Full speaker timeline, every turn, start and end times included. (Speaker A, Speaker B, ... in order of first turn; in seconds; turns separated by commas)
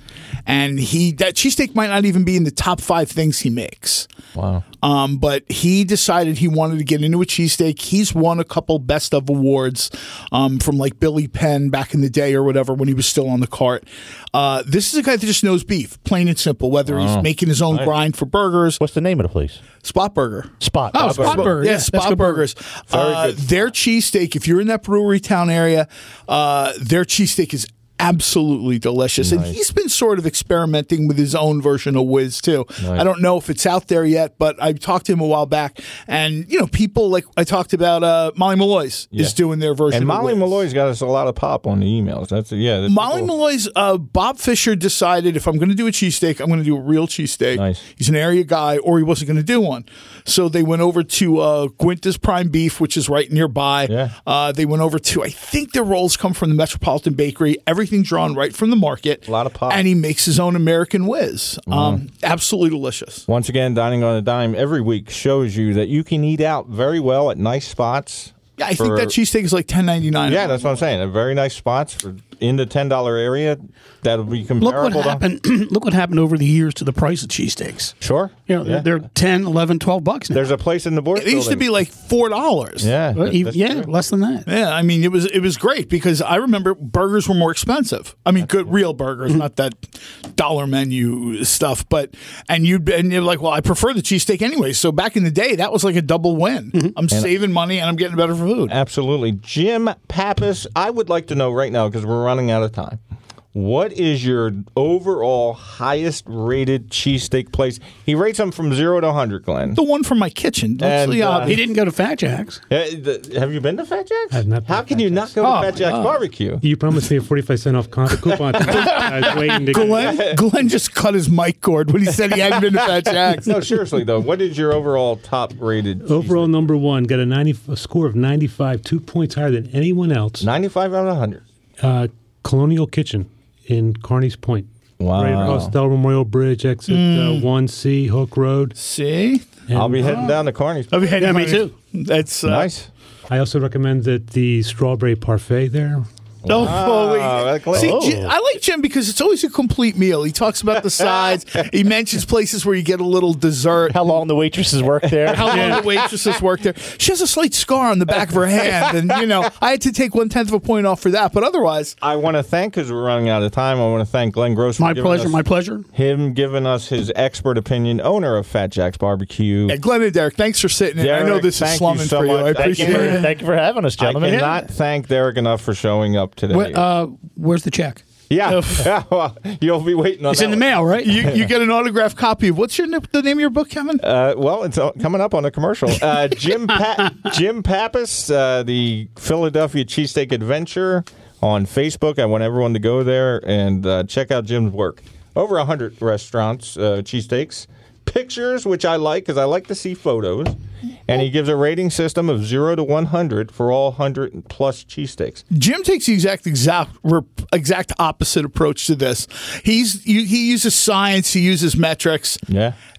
Speaker A: 0.5-4.1, Speaker B: 4.3-4.7, Speaker A: 4.8-18.8, Speaker B: 16.9-17.9, Speaker C: 18.8-19.6, Speaker A: 19.8-20.5, Speaker C: 20.6-21.5, Speaker D: 20.9-22.5, Speaker B: 21.0-21.5, Speaker A: 21.3-40.6, Speaker B: 22.9-23.5, Speaker B: 29.2-29.6, Speaker B: 32.8-33.1, Speaker B: 39.9-43.3, Speaker A: 42.9-63.2, Speaker B: 47.5-47.8, Speaker B: 53.9-54.1, Speaker B: 59.3-59.8, Speaker B: 61.7-62.0, Speaker B: 63.3-69.1, Speaker A: 68.6-70.5, Speaker B: 70.3-75.2, Speaker D: 74.6-78.0, Speaker B: 78.0-78.9, Speaker D: 78.5-80.5, Speaker B: 80.3-81.7, Speaker A: 81.2-82.9, Speaker B: 82.8-83.9, Speaker D: 83.1-84.5, Speaker A: 84.5-89.8, Speaker A: 90.3-98.8, Speaker B: 98.7-103.0, Speaker B: 103.5-109.8, Speaker A: 109.8-111.6, Speaker B: 110.8-111.6, Speaker D: 111.4-112.6, Speaker B: 112.7-116.6, Speaker E: 114.3-115.3, Speaker A: 115.4-116.2, Speaker E: 116.6-120.2, Speaker B: 118.5-120.5, Speaker A: 118.6-123.8, Speaker B: 122.3-126.5, Speaker E: 126.0-130.5, Speaker B: 130.4-131.4, Speaker E: 131.8-138.8, Speaker B: 135.0-135.7, Speaker A: 136.9-137.5, Speaker A: 138.8-139.5, Speaker E: 139.7-140.2, Speaker B: 139.7-141.1, Speaker D: 140.0-140.3, Speaker A: 140.9-142.7, Speaker D: 141.1-141.7, Speaker B: 142.5-142.9, Speaker E: 143.3-146.1, Speaker B: 146.4-148.0, Speaker A: 146.5-154.1, Speaker C: 147.7-148.3, Speaker C: 153.9-155.8, Speaker B: 155.2-155.8, Speaker A: 155.3-161.9, Speaker B: 162.0-165.4, Speaker D: 164.8-165.9, Speaker B: 165.9-169.8, Speaker A: 169.7-173.3, Speaker B: 171.0-173.2, Speaker C: 172.6-174.5, Speaker B: 174.0-176.9, Speaker D: 174.2-174.6, Speaker D: 176.5-178.8, Speaker B: 178.3-180.7, Speaker D: 180.3-181.2, Speaker A: 181.0-184.0, Speaker B: 184.0-205.4, Speaker A: 205.5-212.4, Speaker B: 212.5-212.8